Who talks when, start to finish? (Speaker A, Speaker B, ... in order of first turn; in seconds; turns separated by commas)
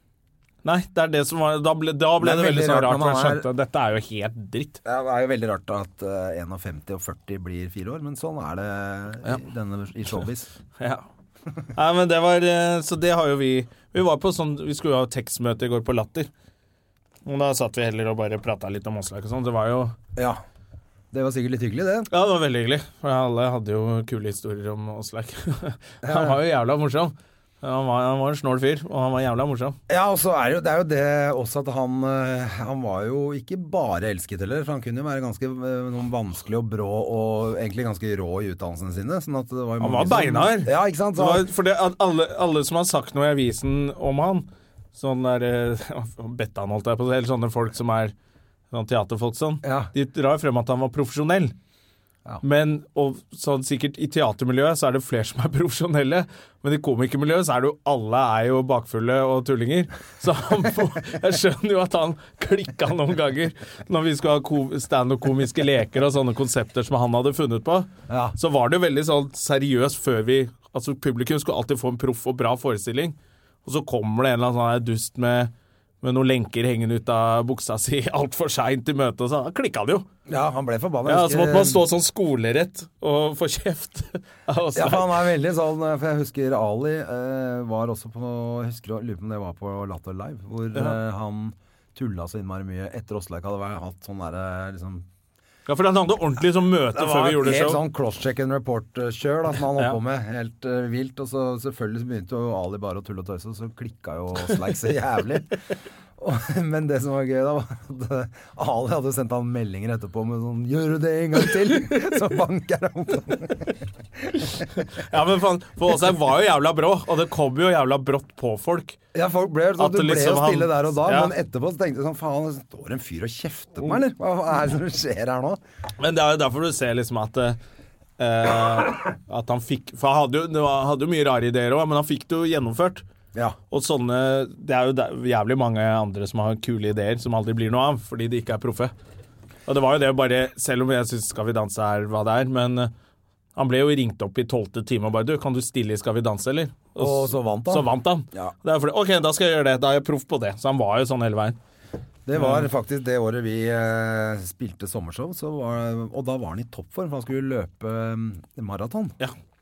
Speaker A: 0.6-4.8, Speaker B: 2.2-3.5, Speaker B: 4.8-10.5, Speaker A: 10.8-11.0, Speaker A: 11.7-16.3, Speaker A: 17.2-20.0, Speaker B: 20.2-20.4, Speaker B: 21.1-22.1, Speaker A: 22.1-29.8, Speaker B: 26.0-26.4, Speaker B: 29.9-41.5, Speaker A: 39.8-48.1, Speaker A: 48.7-51.5, Speaker B: 49.6-49.9, Speaker A: 52.4-80.1, Speaker B: 68.1-68.3, Speaker B: 80.3-81.8, Speaker A: 81.1-85.3, Speaker B: 84.8-95.1, Speaker A: 95.7-97.8, Speaker B: 96.9-105.5, Speaker B: 106.2-113.8, Speaker B: 114.3-114.6, Speaker A: 114.8-119.0, Speaker B: 119.1-125.6, Speaker A: 119.8-121.3, Speaker A: 126.0-127.6, Speaker A: 128.2-133.0, Speaker A: 133.7-138.9, Speaker A: 139.7-142.9, Speaker A: 143.6-151.6, Speaker B: 147.0-148.5, Speaker B: 152.3-159.2, Speaker A: 152.4-152.7